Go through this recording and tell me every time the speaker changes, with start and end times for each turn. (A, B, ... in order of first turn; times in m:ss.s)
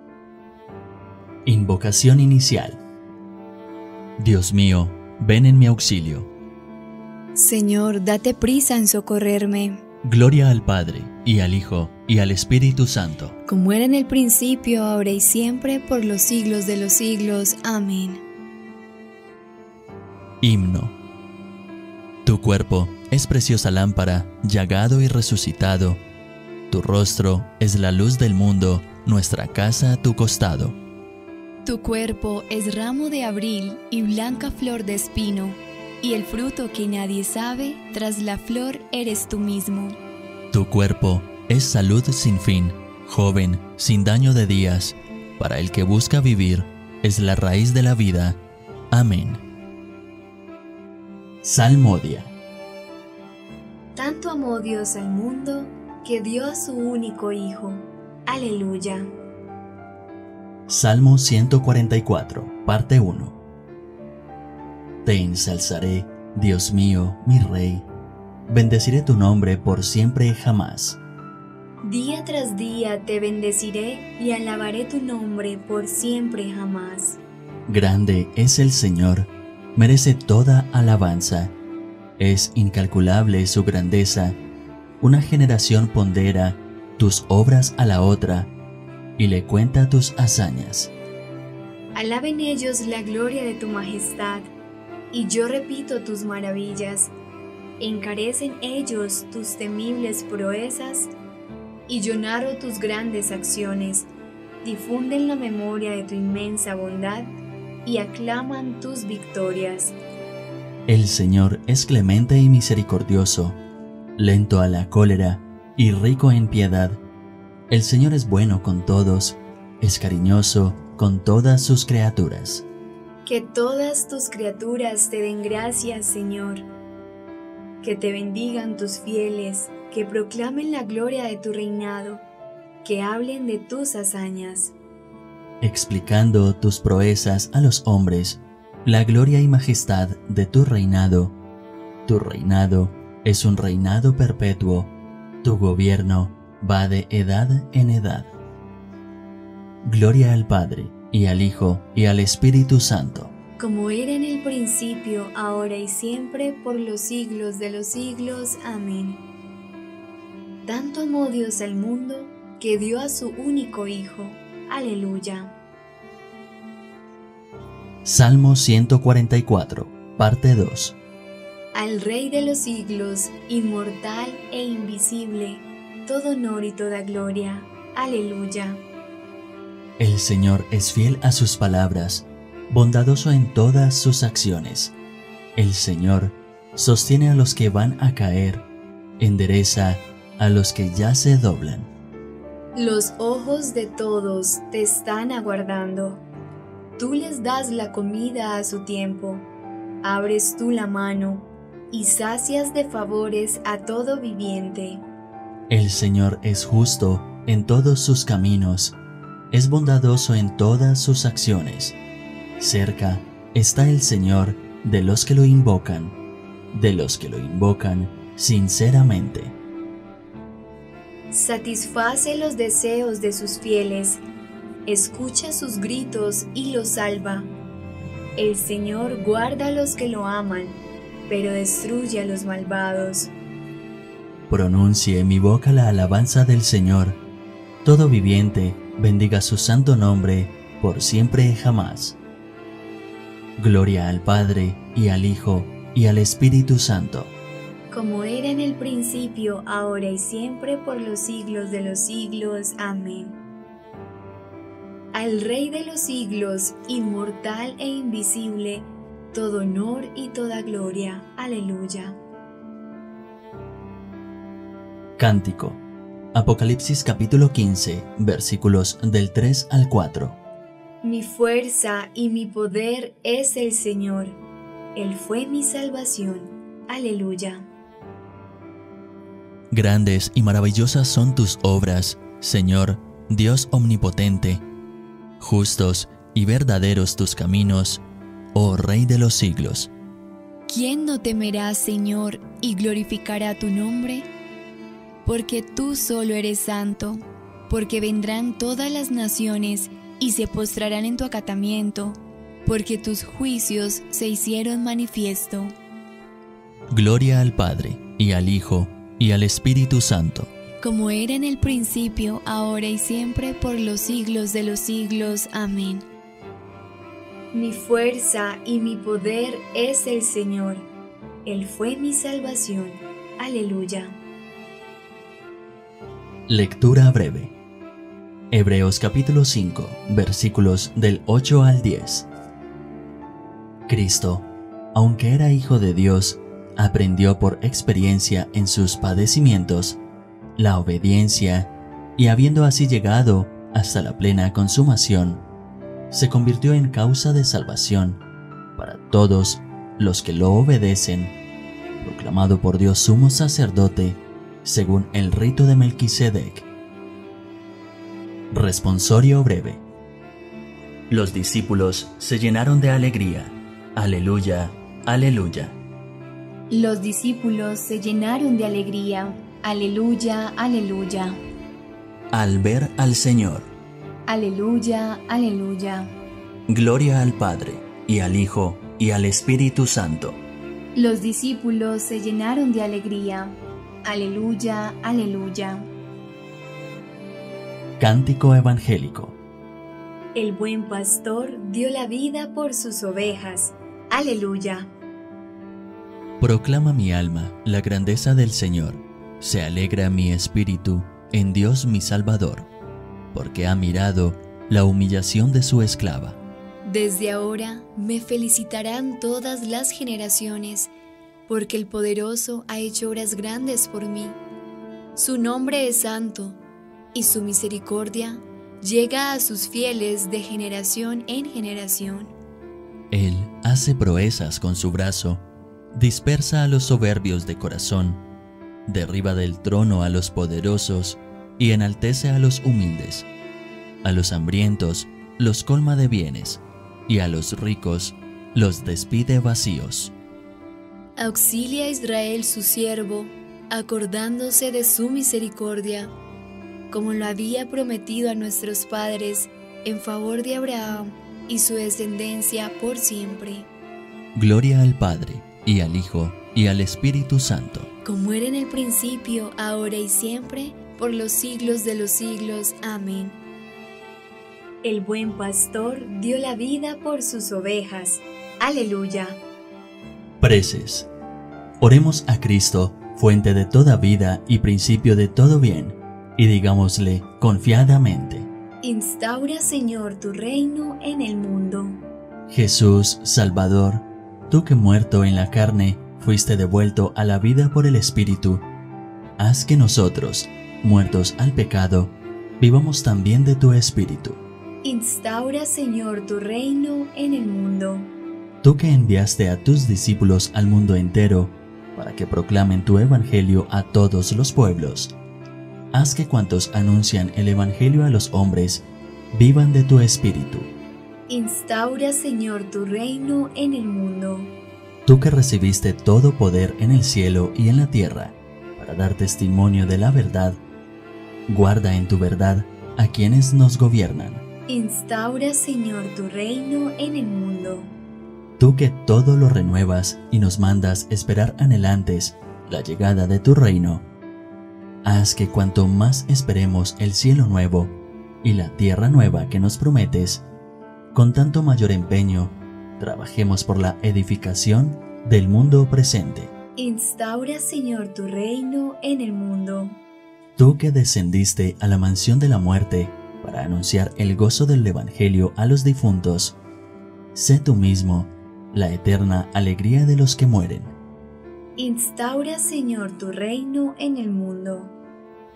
0:01.5-0:02.8 A
0:04.2-0:06.3 A
0:07.4-0:09.8 B
0:10.0-0:13.4 A
0:13.5-0:18.2 B
0:20.4-0:21.0 A
0:22.2-0:26.0 A
0:26.7-0:30.8 A
0:31.7-0:40.0 B
0:40.5-0:48.4 A
0:48.9-0:49.4 A
0:51.4-0:52.3 A
0:54.0-0:59.1 B
1:00.7-1:03.4 A
1:05.0-1:07.9 A
1:08.5-1:11.0 A
1:11.8-1:17.2 B
1:17.7-1:21.5 A
1:22.2-1:24.4 A
1:25.0-1:28.5 A
1:29.2-1:30.9 A
1:32.0-1:34.5 B
1:35.1-1:37.1 B
1:37.8-1:41.1 B
1:41.9-1:44.1 B
1:44.6-1:50.0 B
1:50.9-1:53.6 A
1:54.2-1:57.0 A
1:57.7-2:02.6 A
2:03.3-2:06.7 B
2:07.8-2:12.2 B
2:12.8-2:14.7 B
2:15.6-2:21.3 A
2:22.1-2:24.9 A
2:25.4-2:28.3 A
2:29.8-2:33.3 A
2:33.6-2:39.2 B
2:40.6-2:45.6 B
2:48.0-2:51.0 A
2:51.7-2:58.8 B
3:00.0-3:05.0 A
3:05.6-3:08.6 A
3:09.2-3:11.9 A
3:12.8-3:16.2 B
3:17.0-3:19.5 B
3:20.0-3:25.0 B
3:25.7-3:29.0 A
3:29.5-3:32.0 A
3:32.6-3:36.2 A
3:36.7-3:39.6 A
3:41.3-3:44.2 B
3:44.9-3:47.5 B
3:48.4-3:53.3 B
3:54.5-3:57.2 A
3:57.8-4:02.2 A
4:03.6-4:07.3 A
4:07.9-4:13.4 B
4:15.1-4:22.2 B
4:25.2-4:25.8 A
4:26.3-4:30.4 A
4:31.0-4:34.4 B
4:35.0-4:37.7 B
4:39.7-4:44.6 A
4:45.4-4:48.0 A
4:48.5-4:49.9 A
4:50.7-4:54.3 B
4:55.2-5:05.8 B
5:06.9-5:10.5 A
5:10.8-5:16.1 B
5:17.5-5:20.9 B
5:21.4-5:24.2 B
5:26.5-5:27.5 A
5:28.5-5:32.3 A
5:33.9-5:40.0 A
5:40.6-5:45.4 A
5:46.1-5:48.2 A
5:48.8-5:51.4 A
5:52.0-5:56.7 A
5:58.5-5:59.8 A
6:01.1-6:05.8 A
6:06.7-6:11.4 B
6:12.3-6:13.7 A
6:14.3-6:16.1 B
6:16.7-6:20.4 A
6:21.0-6:25.9 B
6:28.0-6:29.4 A
6:30.4-6:34.9 B
6:36.4-6:42.7 A
6:43.3-6:46.4 A
6:46.8-6:50.9 B
6:51.5-6:54.4 B
6:55.2-6:56.6 B
6:57.1-7:02.3 B
7:03.1-7:08.2 A
7:08.9-7:13.3 A
7:14.0-7:20.1 A
7:21.2-7:26.1 B
7:26.9-7:33.7 B
7:34.4-7:37.9 A
7:38.0-7:43.4 B
7:44.8-7:49.4 B
7:50.4-7:51.1 A
7:51.8-7:58.5 A
7:58.8-8:02.0 B
8:02.5-8:08.6 A
8:09.4-8:14.4 A
8:14.8-8:18.1 B
8:18.6-8:25.1 A
8:25.9-8:30.7 A
8:31.3-8:34.5 B
8:35.1-8:40.6 A
8:41.5-8:44.4 A
8:44.7-8:47.9 B
8:48.6-8:54.0 A
8:55.0-9:00.4 A
9:01.1-9:06.5 A
9:06.8-9:10.0 B
9:10.6-9:16.6 A
9:17.3-9:20.9 A
9:21.8-9:24.9 B